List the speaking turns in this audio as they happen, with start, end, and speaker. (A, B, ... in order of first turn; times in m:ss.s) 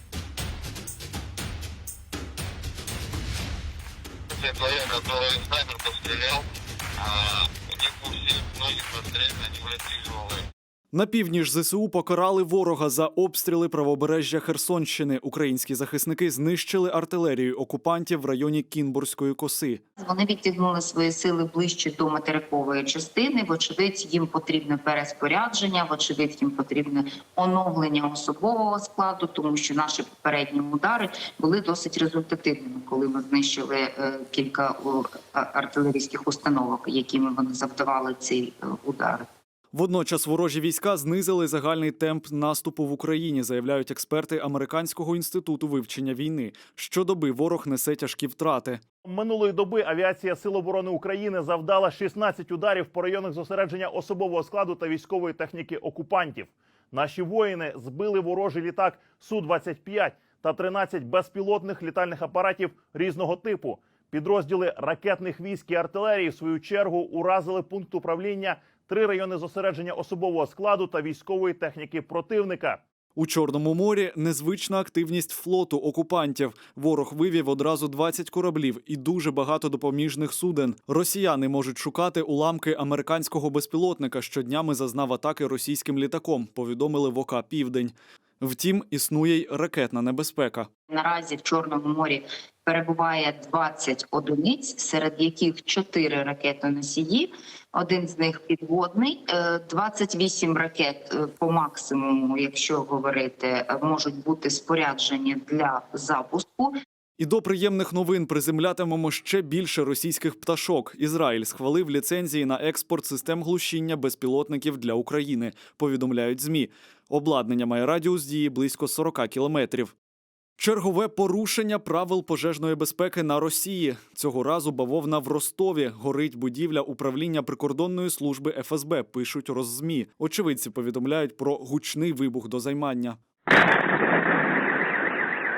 0:04.4-0:06.4 A
0:07.0-0:10.4 A
0:10.9-0:19.8 B
0:20.0-0:39.3 C
0:39.7-0:48.8 B
0:49.0-1:12.8 D
1:13.2-1:30.7 B
1:30.9-1:46.7 C
1:47.2-2:00.0 B
2:00.6-2:13.2 B